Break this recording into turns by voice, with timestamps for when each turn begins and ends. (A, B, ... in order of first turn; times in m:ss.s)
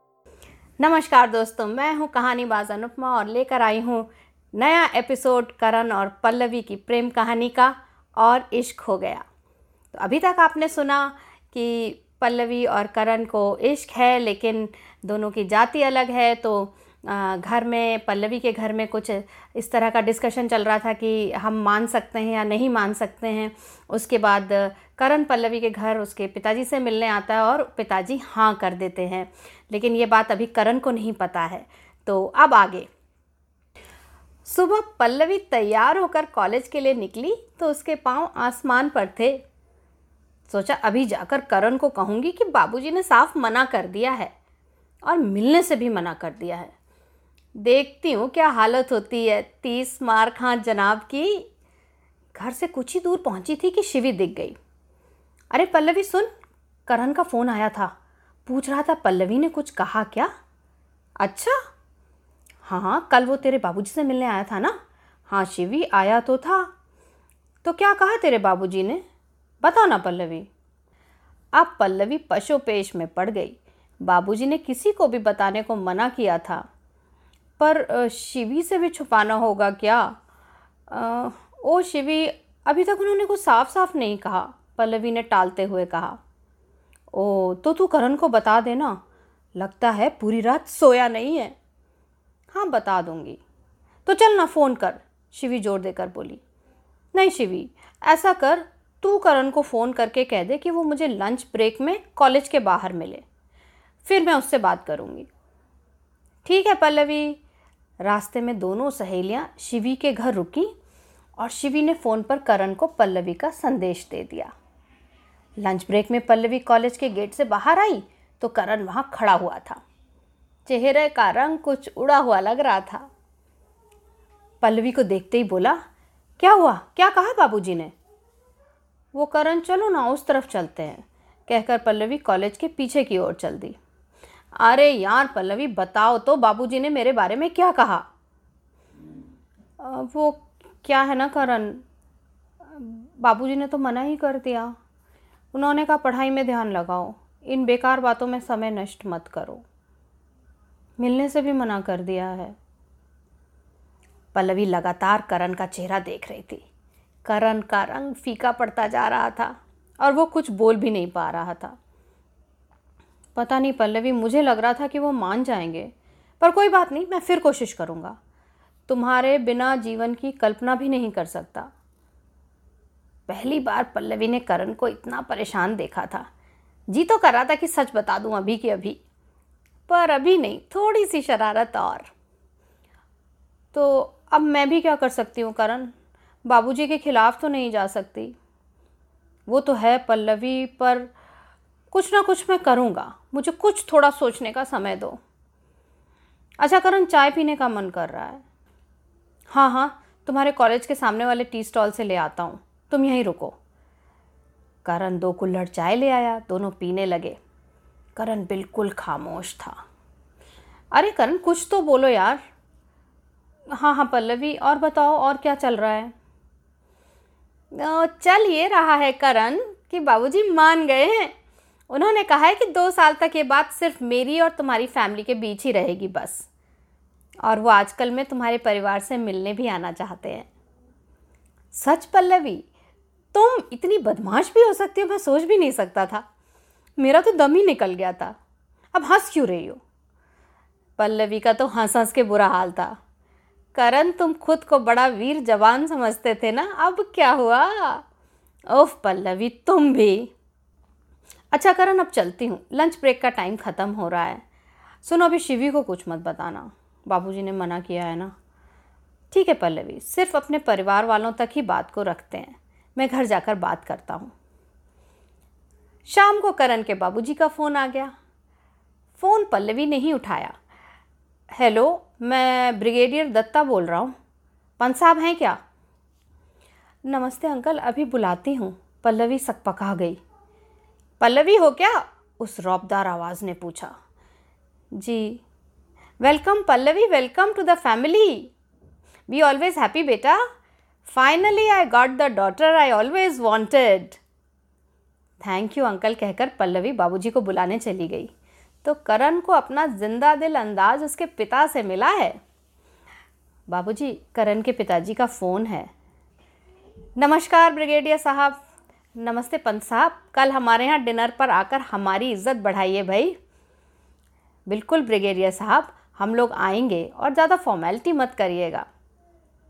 0:00.8-0:09.2 A
0:09.9-0:32.9 A
0:34.5-0:39.4 A
0:40.5-0:44.3 A
0:45.0-0:46.7 A
0:47.6-0:51.5 A
0:52.3-0:54.6 A
0:55.5-0:56.3 A
0:56.9-0:57.9 A
0:58.5-1:00.3 A
1:01.2-1:01.6 A
1:02.6-1:04.8 A
1:05.3-1:06.7 A
1:07.6-1:09.0 A
1:09.6-1:10.5 A
1:11.6-1:16.6 A
1:17.6-1:20.2 A
1:20.9-1:26.2 A
1:27.1-1:29.0 A
1:29.6-1:31.6 A
1:32.5-1:33.4 A
1:34.1-1:36.4 A
1:37.1-1:43.2 A
1:44.0-1:45.3 A
1:46.4-1:47.4 A
1:48.0-1:50.7 A
1:51.4-1:54.5 A
1:55.6-1:59.8 A
2:00.7-2:03.1 A
2:04.6-2:05.8 A
2:06.4-2:07.9 A
2:09.1-2:13.8 A
2:14.6-2:18.0 A
2:19.8-2:21.8 A
2:22.7-2:24.7 A
2:25.5-2:29.6 A
2:31.0-2:32.6 A
2:34.3-2:36.6 A
2:37.2-2:41.8 A
2:43.4-2:48.2 A
2:48.9-2:51.7 A
2:53.3-2:56.3 A
2:56.9-2:59.0 A
2:59.9-3:02.1 A
3:03.7-3:05.9 A
3:06.4-3:08.4 A
3:09.5-3:11.1 A
3:11.9-3:15.2 A
3:16.6-3:18.4 A
3:19.5-3:23.6 A
3:24.8-3:27.4 A
3:28.2-3:29.8 A
3:30.9-3:32.4 A
3:33.7-3:36.1 A
3:37.7-3:41.3 A
3:41.9-3:46.5 A
3:47.4-3:50.5 A
3:51.7-3:52.6 A
3:53.3-3:56.2 A
3:57.0-3:58.3 A
3:58.9-3:59.8 A
4:01.0-4:03.0 A
4:03.7-4:08.0 A
4:08.7-4:10.3 A
4:11.5-4:14.4 A
4:15.0-4:18.3 A
4:19.3-4:24.3 A
4:26.1-4:28.1 A
4:29.2-4:30.5 A
4:31.5-4:34.1 A
4:34.8-4:35.6 A
4:37.0-4:40.2 A
4:41.2-4:43.9 A
4:45.0-4:45.4 A
4:46.2-4:48.5 A
4:49.3-4:50.4 A
4:51.0-4:54.2 A
4:55.4-4:58.3 A
4:58.8-5:02.4 A
5:03.7-5:05.9 A
5:07.2-5:08.6 A
5:09.2-5:13.4 A
5:14.7-5:18.9 A